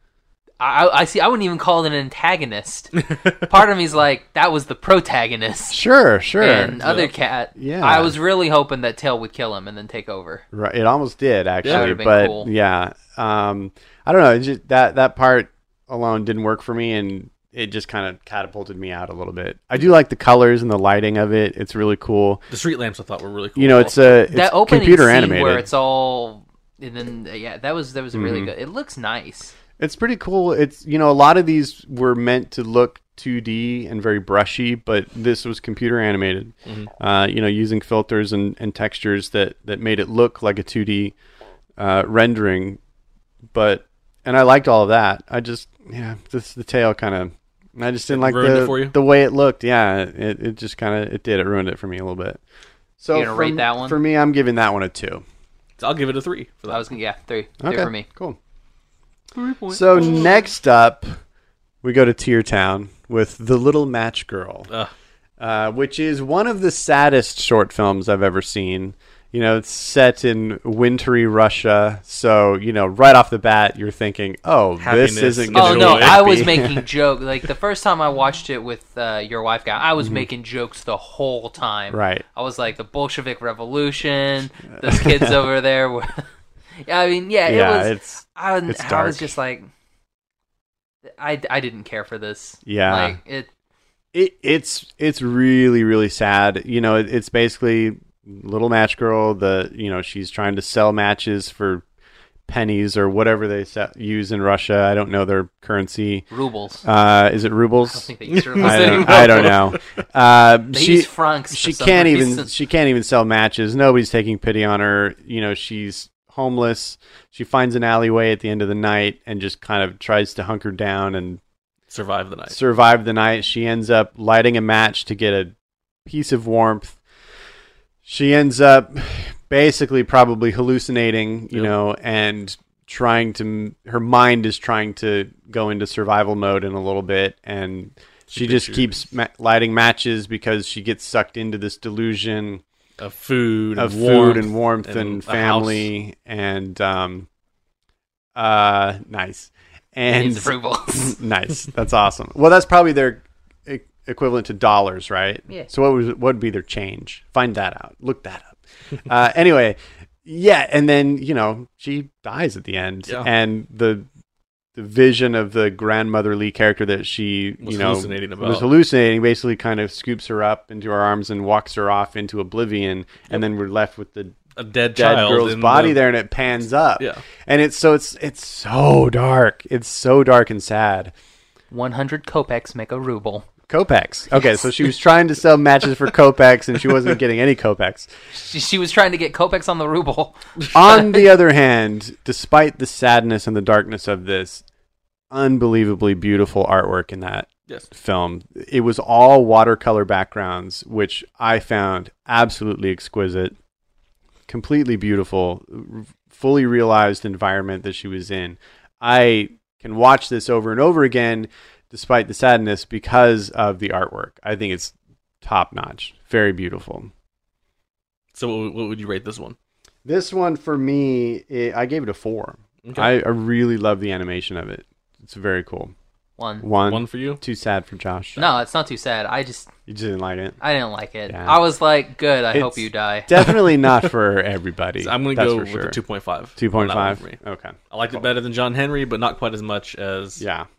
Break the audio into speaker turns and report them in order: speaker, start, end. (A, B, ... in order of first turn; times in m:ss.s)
0:00.6-0:05.8 A
0:05.7-0:06.8 B
0:06.4-0:10.4 A
0:06.8-0:07.1 C
0:07.6-0:08.1 B
0:10.5-0:22.4 B
0:11.6-0:12.5 A
0:22.5-0:24.0 C
0:23.6-0:25.7 B
0:24.3-0:29.5 A
0:28.1-0:28.5 B
0:29.8-0:41.1 B
0:41.8-0:42.8 B
0:43.5-0:52.4 B
0:48.1-0:49.0 C
0:53.0-0:55.2 B
0:53.1-0:54.0 A
0:55.8-0:56.8 C
0:56.7-0:58.1 A
0:57.6-0:58.4 B
0:59.4-1:00.2 A
0:59.7-1:01.2 B
1:01.8-1:04.7 B
1:05.4-1:16.8 B
1:14.8-1:16.2 C
1:15.5-1:26.3 A
1:20.0-1:20.2 B
1:21.9-1:22.2 B
1:24.8-1:25.4 B
1:26.8-1:29.7 A
1:27.4-1:29.3 B
1:31.0-1:33.5 A
1:32.6-1:33.2 B
1:34.1-1:41.8 B
1:42.5-1:46.3 B
1:46.3-1:46.8 A
1:46.8-1:48.1 B
1:47.8-1:49.6 A
1:48.3-1:49.8 C
1:48.6-2:01.4 B
1:50.7-1:52.5 A
2:01.9-2:02.6 C
2:02.5-2:05.5 B
2:06.0-2:07.0 B
2:08.0-2:22.6 B
2:18.3-2:18.9 C
2:23.0-2:25.9 C
2:23.8-2:27.3 B
2:28.3-2:44.0 B
2:30.1-2:31.2 A
2:44.7-2:54.4 B
2:47.6-2:48.7 C
2:54.6-2:56.0 C
2:54.9-3:01.1 B
3:01.7-3:03.5 A
3:03.7-3:08.1 B
3:08.3-3:11.1 A
3:10.7-3:14.6 B
3:15.3-3:23.6 B
3:24.5-3:37.1 B
3:38.3-3:39.6 C
3:40.0-3:45.9 B
3:42.8-3:43.1 C
3:46.4-3:46.7 A
3:46.6-3:48.4 B
3:46.8-3:47.4 C
3:48.4-3:49.7 A
3:49.9-3:50.6 B
3:50.6-3:53.4 A
3:51.3-3:51.6 B
3:52.5-3:56.0 B
3:55.0-3:57.4 C
3:56.6-3:58.2 B
3:57.9-4:00.4 C
4:00.4-4:00.7 B